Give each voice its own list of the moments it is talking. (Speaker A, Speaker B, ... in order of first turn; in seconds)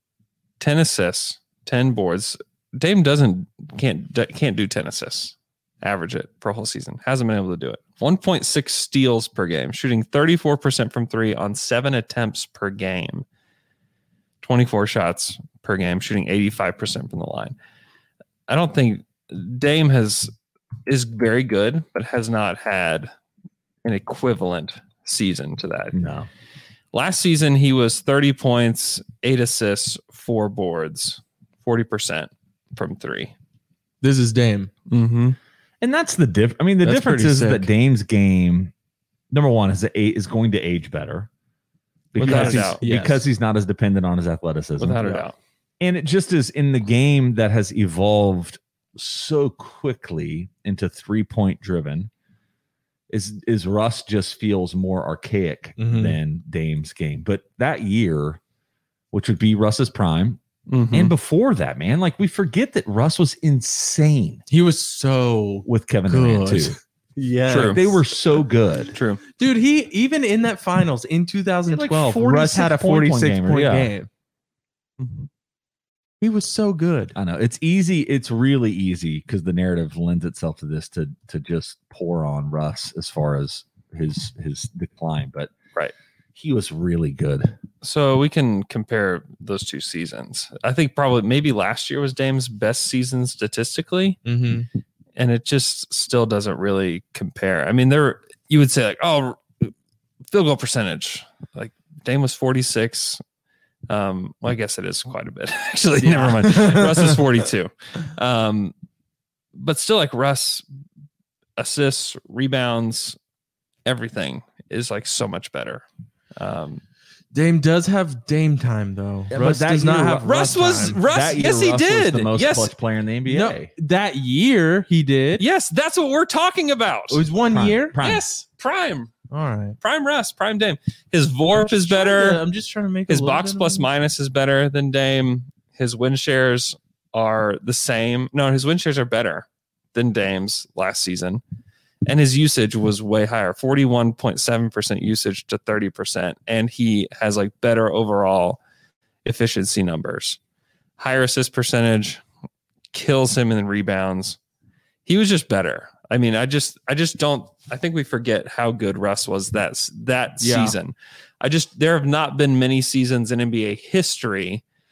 Speaker A: 0.6-13.2, 14.4-17.5, 18.5-20.3, 20.9-23.1, 23.8-26.0, 26.9-33.3, 34.9-35.4, 42.1-43.1, 44.8-45.3, 60.7-61.1, 67.5-67.8, 68.9-69.2, 87.8-94.2, 95.2-99.7, 100.3-103.2, 103.9-108.7, 109.5-110.6, 111.6-113.2, 113.8-115.8, 116.4-116.8, 120.2-122.7, 125.4-127.2, 128.0-129.1, 129.8-132.4, 133.1-141.4, 142.1-148.6, 149.2-150.4, 151.0-152.2, 152.9-154.4, 155.1-164.6
Speaker B: 25.9-26.3, 35.8-38.7, 39.3-41.3, 42.1-45.2, 45.8-52.1, 53.1-58.4, 59.1-60.4, 60.9-64.4, 65.7-66.8, 67.5-69.0, 71.7-73.9, 77.1-85.5, 86.3-87.6, 119.3-123.7, 127.5-128.2
Speaker C: 34.0-34.7, 36.8-37.7, 42.2-43.2, 55.8-56.2, 64.5-68.0, 69.4-74.1, 76.2-77.1, 94.2-94.7, 106.0-107.2, 117.3-121.0, 123.3-125.4, 127.1-128.0, 129.3-129.8, 131.5-133.8, 160.4-160.8